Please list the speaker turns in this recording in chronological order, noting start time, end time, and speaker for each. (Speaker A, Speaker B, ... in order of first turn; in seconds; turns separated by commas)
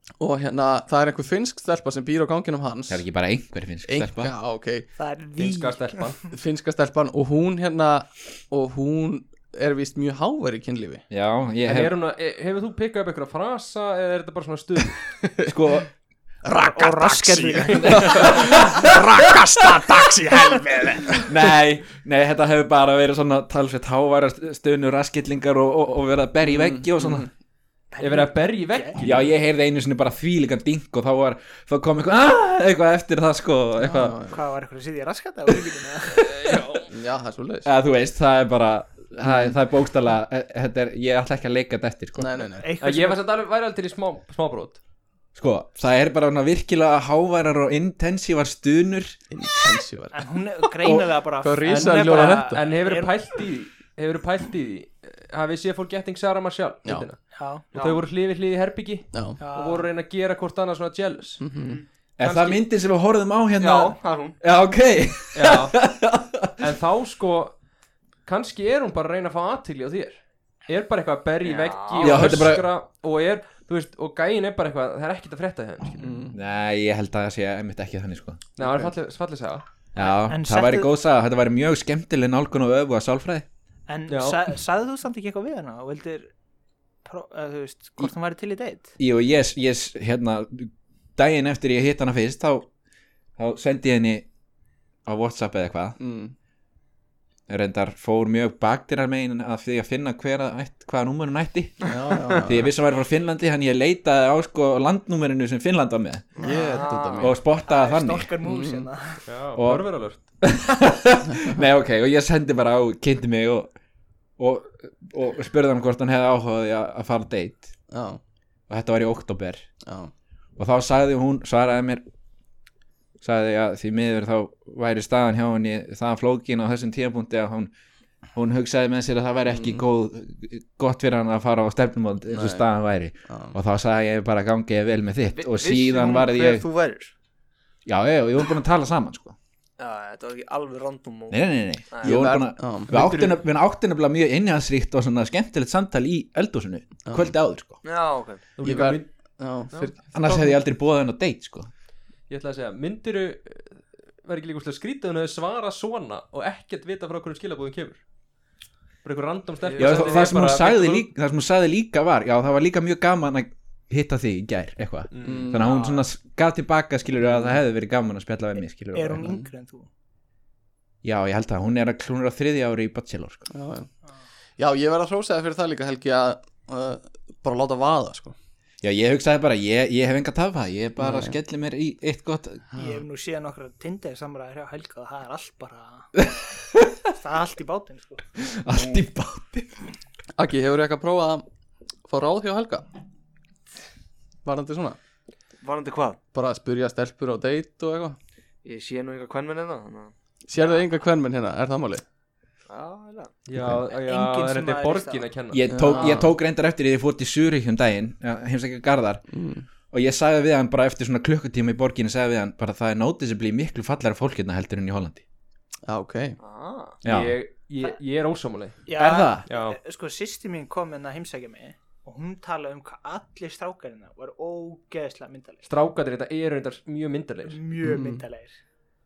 Speaker A: 0.2-3.0, Speaker B: 2.9-4.3, Speaker A: 3.8-4.9, Speaker C: 5.0-6.1, Speaker D: 5.4-6.2, Speaker A: 6.3-11.0, Speaker B: 11.1-11.9, Speaker D: 11.6-15.0, Speaker A: 15.2-15.5, Speaker B: 15.4-15.9, Speaker A: 16.4-21.3, Speaker C: 16.6-18.6, Speaker B: 17.8-18.8, Speaker C: 20.0-21.2, Speaker B: 21.3-27.3, Speaker A: 26.4-27.3, Speaker C: 27.9-29.0, Speaker D: 28.0-29.3, Speaker B: 29.0-34.2, Speaker A: 33.8-34.4, Speaker C: 34.3-36.3, Speaker D: 36.2-36.9, Speaker A: 36.9-37.7, Speaker B: 37.6-42.3, Speaker A: 39.2-39.5, Speaker A: 42.2-42.7, Speaker C: 42.6-43.2, Speaker D: 42.8-44.8, Speaker B: 45.4-49.2, Speaker A: 49.3-50.1, Speaker C: 50.1-53.1, Speaker A: 51.4-52.6, Speaker D: 51.6-61.4, Speaker C: 57.3-57.6, Speaker E: 57.7-58.0, Speaker A: 59.1-59.4, Speaker C: 59.4-59.9, Speaker A: 61.4-61.8, Speaker B: 62.2-66.6, Speaker D: 62.2-62.6, Speaker E: 63.6-64.4, Speaker D: 65.3-65.8, Speaker D: 66.6-67.6, Speaker D: 68.2-76.1, Speaker E: 71.4-72.2, Speaker B: 72.0-72.7, Speaker A: 76.0-76.4, Speaker B: 76.3-78.4, Speaker D: 78.6-79.6, Speaker A: 78.6-78.9, Speaker B: 79.9-83.5, Speaker C: 80.0-80.9, Speaker C: 83.9-86.3, Speaker D: 84.1-84.4, Speaker C: 87.0-88.9, Speaker B: 89.0-92.7, Speaker B: 93.4-94.3, Speaker B: 95.0-96.0, Speaker A: 96.0-96.3, Speaker B: 97.5-106.3, Speaker A: 101.8-102.7, Speaker E: 106.3-107.3, Speaker A: 106.4-107.3, Speaker B: 107.2-108.3, Speaker C: 107.6-109.2, Speaker A: 108.4-108.8, Speaker D: 109.3-110.2, Speaker B: 109.5-109.9, Speaker B: 110.4-113.7, Speaker B: 114.4-117.7, Speaker A: 117.9-118.2, Speaker B: 118.7-119.7, Speaker A: 119.8-120.1, Speaker B: 120.6-122.0, Speaker B: 123.2-127.7, Speaker B: 128.3-136.7, Speaker A: 129.5-129.8, Speaker A: 132.3-132.7, Speaker A: 133.3-133.6, Speaker E: 135.3-137.1, Speaker B: 137.8-139.3, Speaker E: 139.8-142.2, Speaker B: 141.3-147.8, Speaker A: 142.0-143.0, Speaker D: 142.9-143.4, Speaker A: 147.1-147.3, Speaker E: 147.8-148.4, Speaker D: 148.6-149.1, Speaker A: 148.6-150.6, Speaker B: 150.1-151.7, Speaker D: 152.3-158.0, Speaker D: 159.0-161.1, Speaker E: 159.7-160.2, Speaker B: 159.8-169.4, Speaker D: 165.1-165.5, Speaker A: 165.2-165.8, Speaker A: 167.2-167.6, Speaker C: 168.9-169.9, Speaker B: 171.0-173.5, Speaker A: 173.5-173.9, Speaker A: 174.6-178.3, Speaker B: 178.8-182.7, Speaker A: 181.0-181.3, Speaker C: 182.7-186.2, Speaker C: 187.1-188.4, Speaker B: 188.4-189.7, Speaker A: 190.4-191.4, Speaker A: 192.1-192.9, Speaker A: 194.4-195.0, Speaker E: 195.6-196.2, Speaker A: 196.3-198.2, Speaker E: 198.6-200.1, Speaker A: 200.5-202.0, Speaker E: 202.7-203.3, Speaker D: 203.5-205.7, Speaker C: 203.9-205.3, Speaker B: 205.5-209.2, Speaker A: 205.7-206.3, Speaker A: 209.3-209.7, Speaker B: 209.9-215.2, Speaker A: 215.9-216.4, Speaker E: 216.4-217.0, Speaker B: 217.0-217.4, Speaker D: 217.0-218.9, Speaker C: 218.9-225.7, Speaker B: 219.0-219.4, Speaker D: 219.4-219.8, Speaker D: 225.7-227.6, Speaker C: 227.5-228.6, Speaker A: 227.8-228.2